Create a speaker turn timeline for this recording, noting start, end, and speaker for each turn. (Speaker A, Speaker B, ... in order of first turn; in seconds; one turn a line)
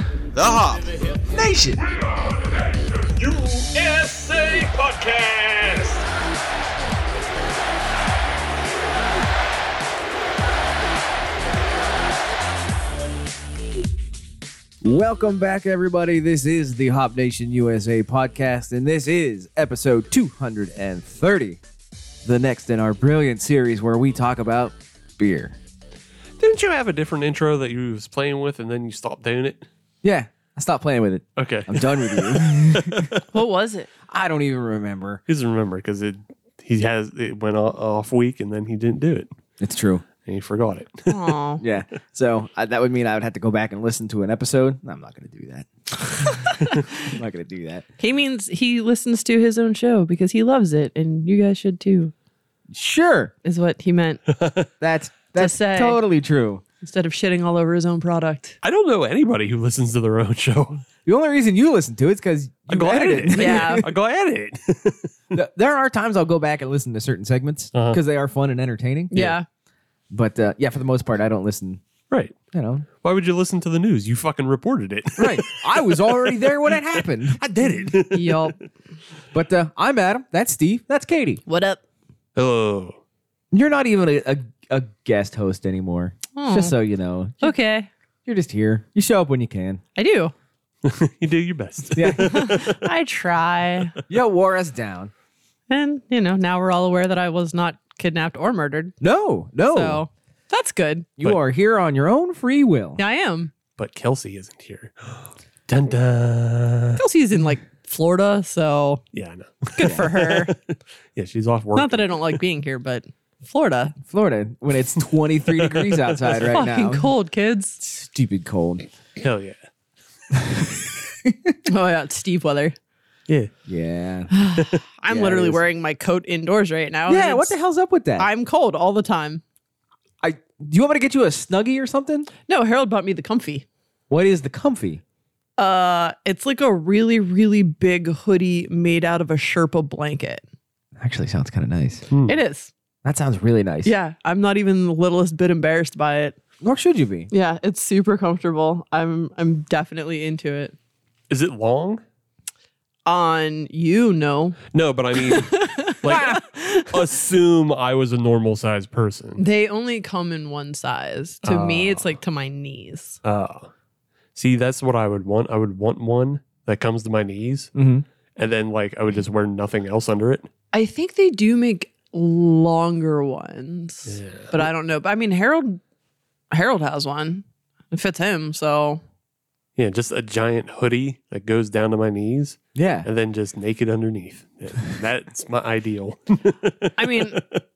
Speaker A: 1.3-1.9
Speaker B: 2.0-6.0
Speaker A: 14.8-21.6
Speaker A: 22.2-25.6
Speaker B: 26.4-29.7
Speaker A: 30.0-33.1
Speaker B: 31.4-33.2
Speaker C: 33.3-33.9
Speaker A: 34.1-35.2
Speaker B: 35.3-39.3
Speaker A: 39.6-40.0
Speaker B: 40.2-41.4
Speaker C: 41.1-41.6
Speaker A: 41.6-45.7
Speaker C: 46.1-46.5
Speaker A: 46.2-47.8
Speaker C: 48.0-52.1
Speaker A: 52.7-53.3
Speaker C: 53.4-54.2
Speaker B: 54.4-54.7
Speaker A: 54.8-56.6
Speaker C: 55.4-56.0
Speaker C: 56.8-58.6
Speaker B: 58.6-60.8
Speaker A: 61.0-63.9
Speaker B: 62.7-65.1
Speaker C: 63.3-63.8
Speaker A: 65.3-69.1
Speaker B: 67.7-68.0
Speaker B: 69.1-69.4
Speaker C: 69.1-69.5
Speaker A: 70.1-71.8
Speaker B: 72.1-72.3
Speaker A: 72.5-72.8
Speaker B: 73.0-76.8
Speaker A: 75.2-77.4
Speaker B: 77.3-78.4
Speaker C: 77.8-78.6
Speaker A: 79.3-81.4
Speaker C: 81.5-81.8
Speaker B: 82.3-83.0
Speaker A: 83.5-87.5
Speaker C: 86.3-86.8
Speaker C: 87.4-87.9
Speaker A: 88.2-89.8
Speaker C: 90.0-90.3
Speaker B: 90.8-92.8
Speaker A: 91.9-92.3
Speaker C: 92.1-93.9
Speaker A: 94.1-95.1
Speaker C: 95.7-98.9
Speaker A: 99.0-100.0
Speaker C: 99.7-101.1
Speaker A: 101.2-103.0
Speaker C: 103.0-103.5
Speaker B: 103.8-107.0
Speaker C: 107.0-109.0
Speaker B: 109.1-112.3
Speaker C: 109.7-110.5
Speaker A: 109.8-110.1
Speaker C: 111.8-114.0
Speaker A: 114.1-117.1
Speaker B: 115.6-116.2
Speaker C: 116.5-117.8
Speaker A: 117.8-118.8
Speaker B: 119.2-119.6
Speaker A: 120.3-121.5
Speaker C: 121.7-122.8
Speaker A: 123.7-124.3
Speaker C: 124.3-127.5
Speaker A: 125.1-125.6
Speaker A: 127.1-128.3
Speaker C: 128.2-129.4
Speaker A: 130.2-132.3
Speaker C: 132.5-133.7
Speaker A: 134.1-135.0
Speaker C: 135.6-140.4
Speaker A: 141.0-142.1
Speaker B: 142.1-142.4
Speaker C: 142.2-142.7
Speaker A: 143.0-143.9
Speaker C: 143.8-146.4
Speaker A: 146.6-147.3
Speaker C: 147.3-150.8
Speaker B: 151.3-152.0
Speaker C: 153.1-154.6
Speaker B: 154.7-159.4
Speaker C: 155.2-156.9
Speaker C: 159.4-163.2
Speaker B: 161.4-162.1
Speaker B: 163.2-163.7
Speaker B: 164.3-167.7
Speaker A: 167.8-168.1
Speaker B: 168.4-170.5
Speaker C: 170.7-175.8
Speaker B: 174.1-174.5
Speaker C: 176.5-179.0
Speaker B: 179.8-187.6
Speaker A: 182.8-183.1
Speaker C: 187.0-187.4